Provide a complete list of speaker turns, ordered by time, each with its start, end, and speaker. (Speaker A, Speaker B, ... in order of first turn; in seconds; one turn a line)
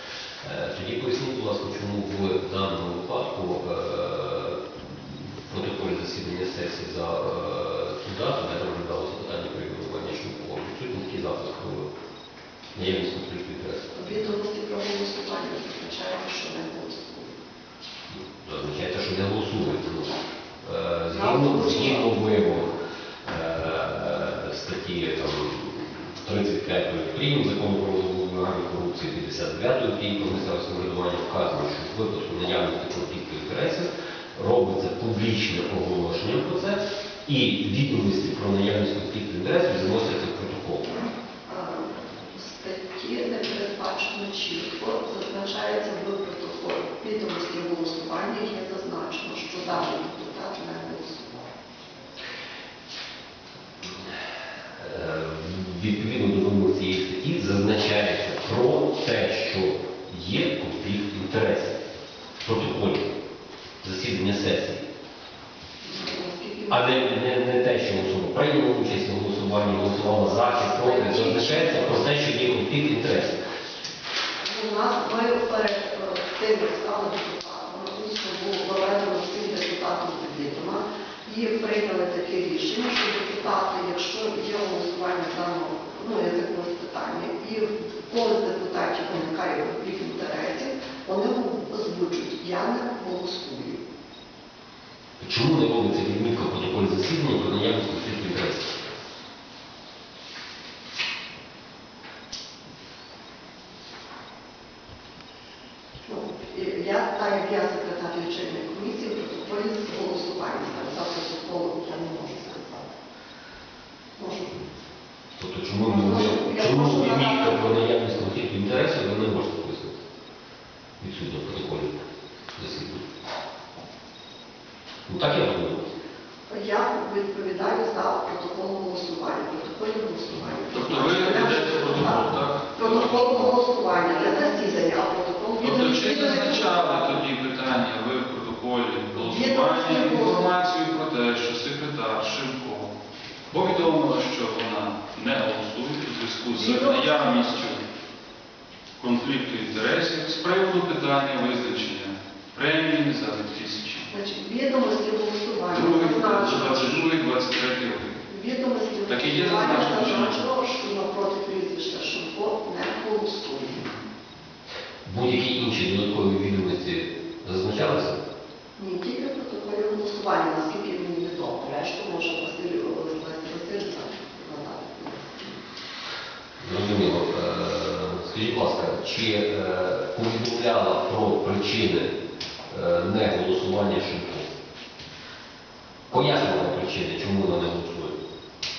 Speaker A: 0.4-11.9
Speaker A: 12.7-13.9
Speaker B: 13.9-17.4
Speaker A: 18.1-40.9
Speaker B: 21.1-22.1
Speaker B: 41.5-51.5
Speaker A: 54.8-61.8
Speaker A: 62.4-63.1
Speaker A: 63.8-64.8
Speaker B: 65.8-67.0
Speaker A: 66.7-73.4
Speaker B: 70.7-72.0
Speaker B: 74.4-93.8
Speaker A: 95.2-98.8
Speaker B: 106.0-112.9
Speaker B: 114.2-114.6
Speaker A: 115.4-120.0
Speaker B: 115.8-117.7
Speaker A: 121.0-122.0
Speaker A: 122.5-123.0
Speaker A: 125.1-125.9
Speaker B: 126.5-137.2
Speaker C: 130.7-133.6
Speaker C: 135.6-142.9
Speaker B: 139.1-140.5
Speaker C: 143.5-147.8
Speaker B: 146.5-147.3
Speaker C: 149.0-154.1
Speaker B: 154.1-157.1
Speaker C: 155.7-158.2
Speaker B: 158.3-163.9
Speaker C: 159.1-160.4
Speaker A: 165.0-168.2
Speaker B: 168.8-175.6
Speaker A: 176.6-182.1
Speaker A: 182.7-184.5
Speaker A: 186.1-188.2
Speaker B: 186.1-186.5